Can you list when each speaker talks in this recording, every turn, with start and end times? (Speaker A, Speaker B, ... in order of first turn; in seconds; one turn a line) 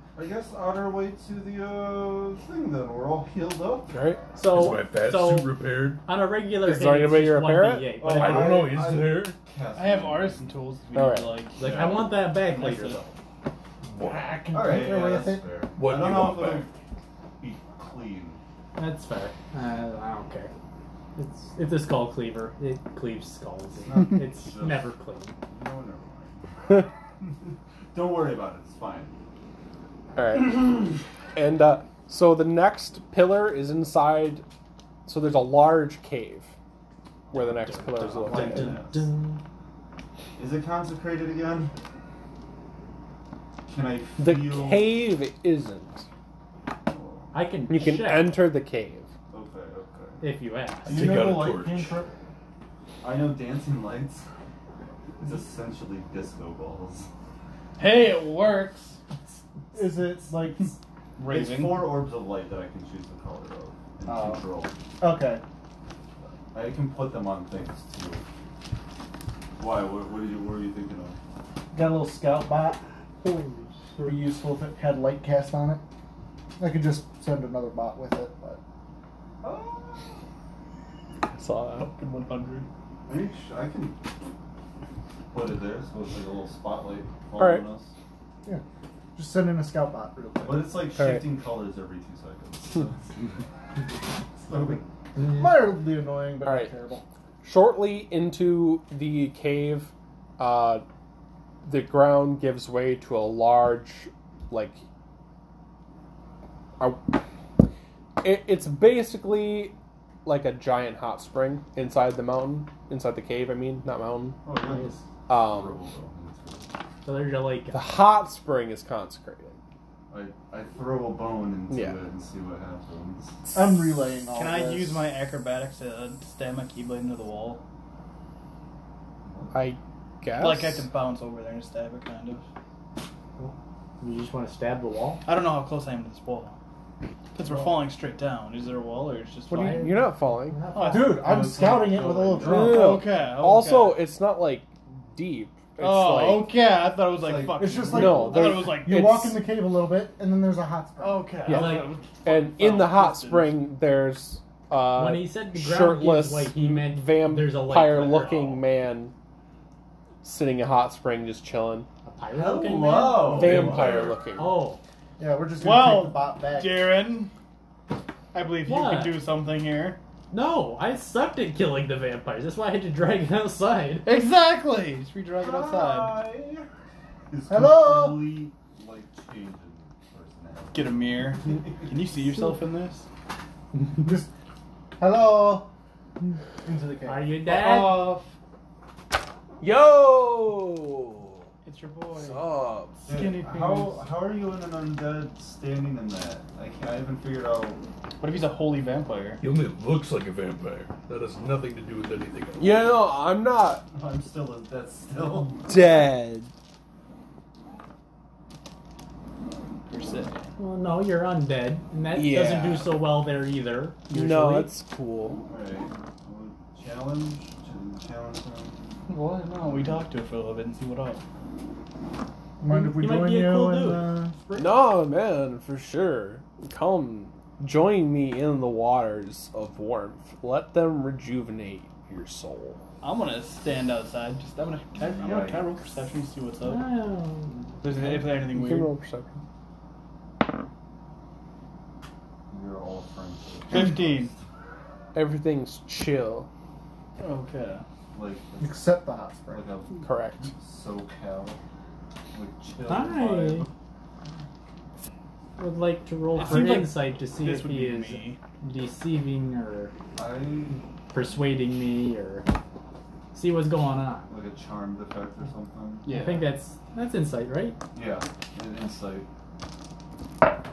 Speaker A: 0.2-4.0
Speaker B: 3.9-4.2
Speaker C: 4.3-8.6
Speaker D: 4.5-6.0
Speaker B: 6.6-7.9
Speaker A: 8.0-10.6
Speaker D: 8.0-9.4
Speaker E: 9.7-13.0
Speaker B: 10.9-11.4
Speaker C: 11.6-13.2
Speaker A: 11.6-12.2
Speaker D: 13.8-14.4
Speaker F: 14.0-15.5
Speaker A: 14.5-16.7
Speaker D: 15.8-16.7
Speaker A: 17.4-18.4
Speaker C: 18.8-20.5
Speaker C: 21.2-25.4
Speaker A: 23.8-24.9
Speaker A: 25.5-29.1
Speaker B: 30.2-34.5
Speaker B: 35.1-36.5
Speaker B: 37.3-38.8
Speaker C: 37.4-39.4
Speaker A: 37.9-39.0
Speaker A: 40.4-41.7
Speaker A: 43.7-45.1
Speaker B: 44.2-46.1
Speaker A: 46.8-47.3
Speaker C: 47.3-48.4
Speaker B: 47.7-49.1
Speaker A: 49.3-50.2
Speaker C: 50.2-51.1
Speaker D: 50.9-52.0
Speaker F: 50.9-52.1
Speaker A: 53.0-54.3
Speaker A: 55.2-57.1
Speaker E: 57.8-59.0
Speaker F: 59.7-60.8
Speaker E: 61.2-62.0
Speaker A: 61.3-64.8
Speaker F: 64.1-64.4
Speaker F: 65.0-65.4
Speaker A: 66.5-68.2
Speaker A: 69.6-71.2
Speaker F: 71.7-72.8
Speaker F: 74.0-75.8
Speaker F: 76.6-78.6
Speaker A: 79.4-80.2
Speaker B: 81.3-81.9
Speaker E: 81.8-82.7
Speaker A: 83.1-84.0
Speaker A: 85.3-87.9
Speaker B: 87.4-87.7
Speaker F: 89.2-90.9
Speaker A: 90.4-94.9
Speaker B: 91.0-91.3
Speaker C: 95.2-95.6
Speaker F: 95.2-97.0
Speaker B: 96.4-96.7
Speaker B: 97.4-100.8
Speaker B: 101.6-104.8
Speaker B: 106.8-107.2
Speaker B: 108.2-114.4
Speaker A: 114.4-116.7
Speaker C: 114.6-115.0
Speaker B: 115.3-115.7
Speaker C: 117.0-118.2
Speaker B: 117.7-119.6
Speaker A: 120.1-123.5
Speaker B: 121.7-122.0
Speaker F: 123.5-125.1
Speaker E: 124.3-127.6
Speaker A: 129.3-129.6
Speaker B: 129.5-130.9
Speaker E: 130.4-132.4
Speaker C: 133.4-135.2
Speaker E: 135.2-136.6
Speaker E: 137.3-139.9
Speaker C: 139.5-141.3
Speaker B: 139.7-140.6
Speaker E: 140.7-141.3
Speaker F: 140.9-143.1
Speaker A: 141.1-142.7
Speaker B: 142.4-146.6
Speaker E: 142.6-144.1
Speaker E: 145.8-149.1
Speaker A: 147.2-148.5
Speaker F: 147.4-151.5
Speaker B: 147.9-149.4
Speaker E: 151.0-153.7
Speaker C: 151.5-151.9
Speaker B: 151.5-159.1
Speaker C: 154.9-158.6
Speaker B: 160.2-161.9
Speaker C: 162.1-163.8
Speaker A: 162.3-164.1
Speaker B: 163.3-164.6
Speaker D: 163.4-164.1
Speaker C: 164.3-164.8
Speaker F: 165.2-166.9
Speaker E: 165.6-167.3
Speaker E: 168.3-170.0
Speaker C: 168.6-169.2
Speaker C: 170.3-174.1
Speaker E: 174.1-176.2
Speaker A: 175.4-176.7
Speaker A: 177.3-181.9
Speaker F: 177.5-178.3
Speaker E: 180.7-183.1
Speaker F: 184.0-184.3
Speaker F: 185.0-185.7
Speaker F: 186.6-187.3
Speaker C: 187.1-188.2
Speaker E: 187.6-188.1
Speaker B: 189.6-191.5
Speaker E: 191.7-194.1
Speaker B: 192.1-193.0
Speaker A: 193.1-197.8
Speaker E: 198.2-199.4
Speaker D: 199.4-202.8
Speaker B: 202.6-203.8
Speaker A: 203.9-206.1
Speaker B: 205.7-206.5
Speaker E: 209.9-210.5
Speaker C: 210.6-214.7
Speaker B: 212.1-212.9
Speaker B: 214.1-215.4
Speaker A: 215.5-218.8
Speaker E: 219.1-221.2
Speaker F: 222.6-224.6
Speaker C: 222.7-224.2
Speaker B: 224.6-232.8
Speaker E: 233.0-236.8
Speaker A: 235.1-235.8
Speaker C: 236.6-237.8
Speaker E: 237.8-238.9
Speaker B: 238.0-239.4
Speaker A: 242.5-244.4
Speaker E: 243.7-244.3
Speaker B: 245.1-246.5
Speaker E: 247.2-247.8
Speaker A: 248.1-248.9
Speaker F: 248.6-249.7
Speaker A: 249.5-251.6
Speaker B: 250.0-250.5
Speaker A: 252.3-253.7
Speaker C: 252.9-253.7
Speaker C: 255.6-259.9
Speaker E: 256.4-258.4
Speaker A: 260.2-261.3
Speaker C: 260.7-262.5
Speaker C: 263.3-264.3
Speaker A: 264.3-266.1
Speaker E: 266.1-266.5
Speaker C: 266.1-267.8
Speaker A: 267.9-269.3